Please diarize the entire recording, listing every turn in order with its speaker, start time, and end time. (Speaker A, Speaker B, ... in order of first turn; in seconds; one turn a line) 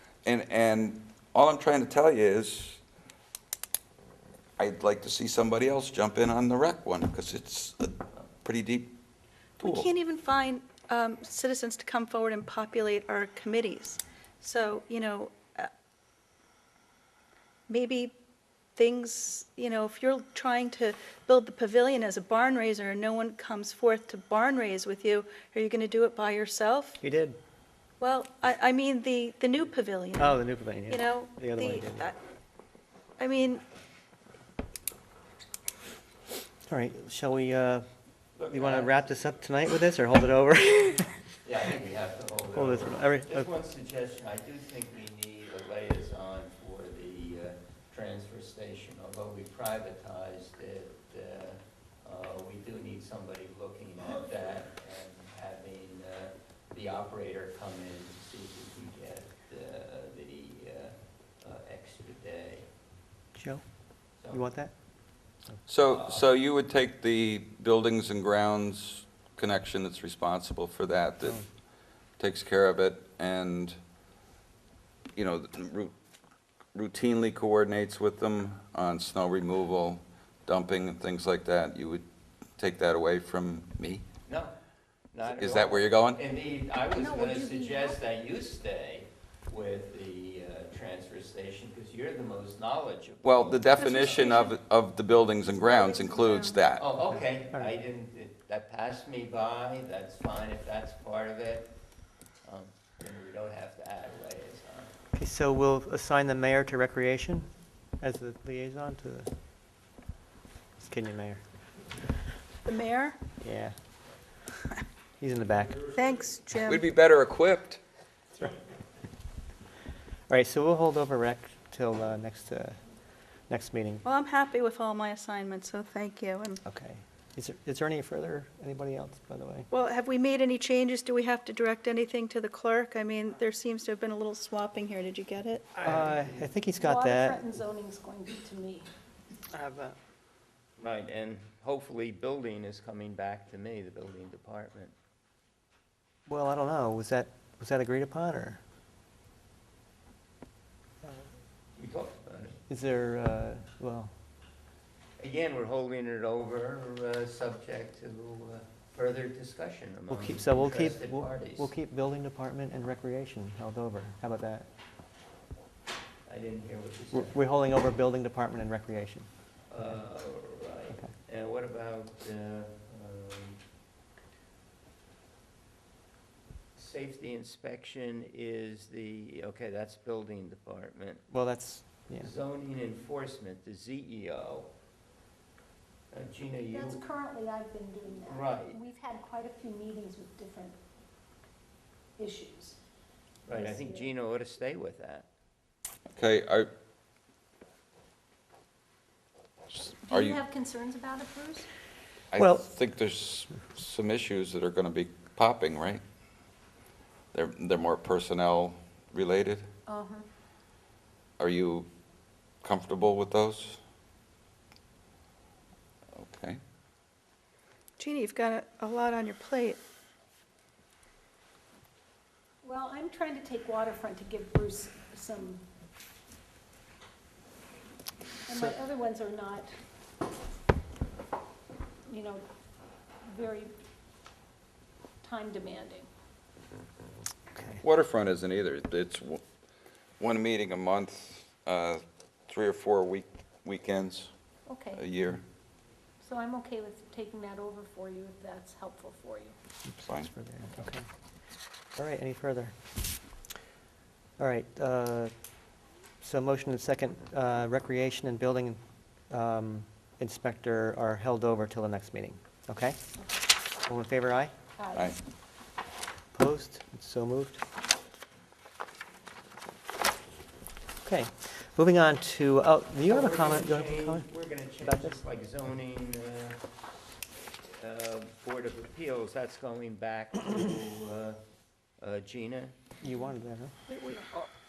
Speaker A: 0.2-2.8
Speaker A: 4.6-8.9
Speaker B: 9.6-15.7
Speaker A: 9.6-9.9
Speaker B: 17.7-18.1
Speaker B: 18.8-27.0
Speaker C: 27.0-27.4
Speaker B: 28.0-32.1
Speaker C: 30.2-32.1
Speaker B: 33.2-33.6
Speaker C: 36.7-37.9
Speaker D: 38.4-39.2
Speaker C: 38.5-41.1
Speaker D: 41.4-62.7
Speaker C: 42.5-43.5
Speaker C: 63.4-63.6
Speaker C: 64.3-64.7
Speaker A: 65.7-71.4
Speaker D: 65.9-66.3
Speaker A: 72.2-73.8
Speaker A: 75.2-75.9
Speaker A: 76.7-82.0
Speaker A: 82.6-84.0
Speaker D: 84.3-84.5
Speaker D: 85.1-94.4
Speaker A: 85.4-86.2
Speaker E: 87.0-88.0
Speaker A: 93.2-96.9
Speaker B: 93.8-94.5
Speaker B: 95.5-96.6
Speaker D: 96.8-101.7
Speaker D: 102.4-104.9
Speaker C: 105.1-107.5
Speaker C: 108.0-109.3
Speaker C: 110.8-111.4
Speaker B: 112.7-113.2
Speaker C: 113.4-113.8
Speaker C: 115.2-115.9
Speaker B: 115.9-116.8
Speaker A: 116.7-117.8
Speaker C: 120.3-122.8
Speaker C: 123.5-124.0
Speaker B: 124.0-126.6
Speaker C: 126.7-129.7
Speaker B: 129.7-135.8
Speaker C: 135.8-137.5
Speaker E: 136.8-138.9
Speaker C: 139.5-140.0
Speaker D: 140.8-144.9
Speaker C: 146.3-148.6
Speaker D: 151.8-152.6
Speaker C: 152.7-154.1
Speaker D: 155.2-161.7
Speaker C: 160.1-164.7
Speaker D: 166.3-167.4
Speaker C: 167.1-169.3
Speaker D: 169.7-173.6
Speaker D: 176.8-181.3
Speaker C: 181.3-182.3
Speaker D: 182.2-184.7
Speaker D: 186.1-187.0
Speaker E: 186.7-190.8
Speaker D: 188.2-188.8
Speaker E: 192.2-192.8
Speaker D: 193.5-195.3
Speaker E: 193.5-194.1
Speaker A: 196.1-196.7
Speaker A: 199.7-200.4
Speaker E: 200.1-201.7
Speaker A: 202.3-206.0
Speaker C: 202.4-202.7
Speaker A: 207.3-209.7
Speaker E: 209.9-210.2
Speaker A: 211.4-211.9
Speaker A: 212.6-213.8
Speaker A: 216.2-216.6
Speaker B: 218.0-219.8
Speaker E: 222.6-225.6
Speaker E: 228.5-229.7
Speaker E: 232.1-232.4
Speaker E: 233.3-233.7
Speaker E: 235.2-236.1
Speaker C: 237.5-237.8
Speaker A: 237.8-239.4
Speaker A: 240.2-244.3
Speaker E: 244.7-245.0
Speaker A: 244.9-245.4
Speaker E: 246.2-249.6
Speaker C: 249.9-251.1
Speaker C: 252.0-252.8
Speaker C: 254.4-255.3
Speaker C: 256.2-263.0
Speaker C: 263.8-264.5
Speaker E: 264.8-265.2
Speaker C: 266.3-267.6
Speaker C: 271.0-274.3
Speaker D: 273.1-276.6
Speaker C: 274.8-275.2
Speaker D: 277.7-281.4
Speaker D: 282.0-282.8
Speaker C: 283.0-283.8
Speaker B: 283.9-284.5